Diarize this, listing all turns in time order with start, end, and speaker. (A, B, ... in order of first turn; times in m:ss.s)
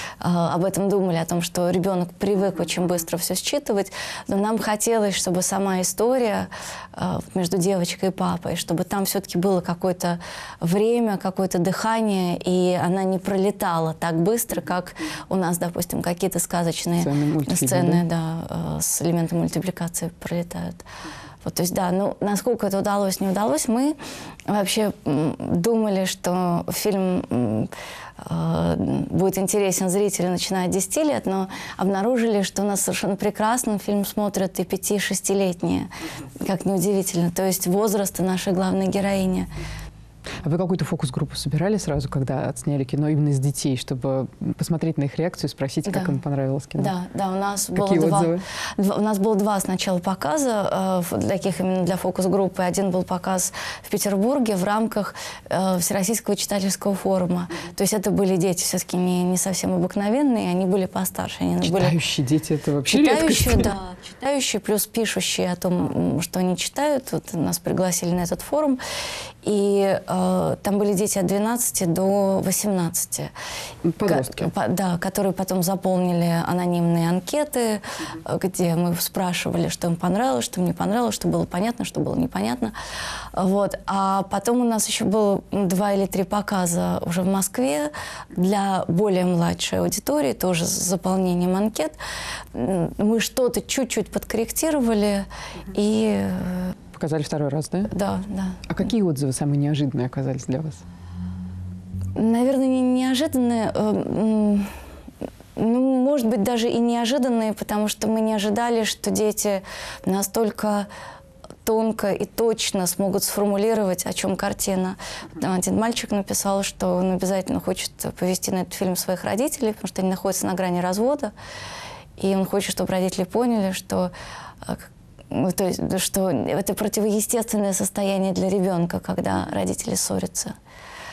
0:00.2-0:20.8 A
0:17.0-0:18.0 B
0:21.4-0:24.0 A
0:24.5-0:35.9 A
0:36.4-0:39.5 A
0:40.4-0:46.9 B
0:45.9-0:46.2 A
0:46.8-1:02.0 A
0:47.8-0:48.4 B
1:01.6-1:03.7 B
1:02.9-1:08.8 A
1:09.4-1:13.3 A
1:13.9-1:14.5 B
1:14.0-1:22.7 A
1:23.3-1:32.0 A
1:32.5-1:36.8 A
1:36.9-1:37.9 B
1:37.9-1:38.6 A
1:38.7-1:40.8 B
1:42.2-1:44.7 A
1:45.6-1:50.9 A
1:51.6-2:01.3 A
2:02.2-2:04.1 A
2:04.6-2:10.5 A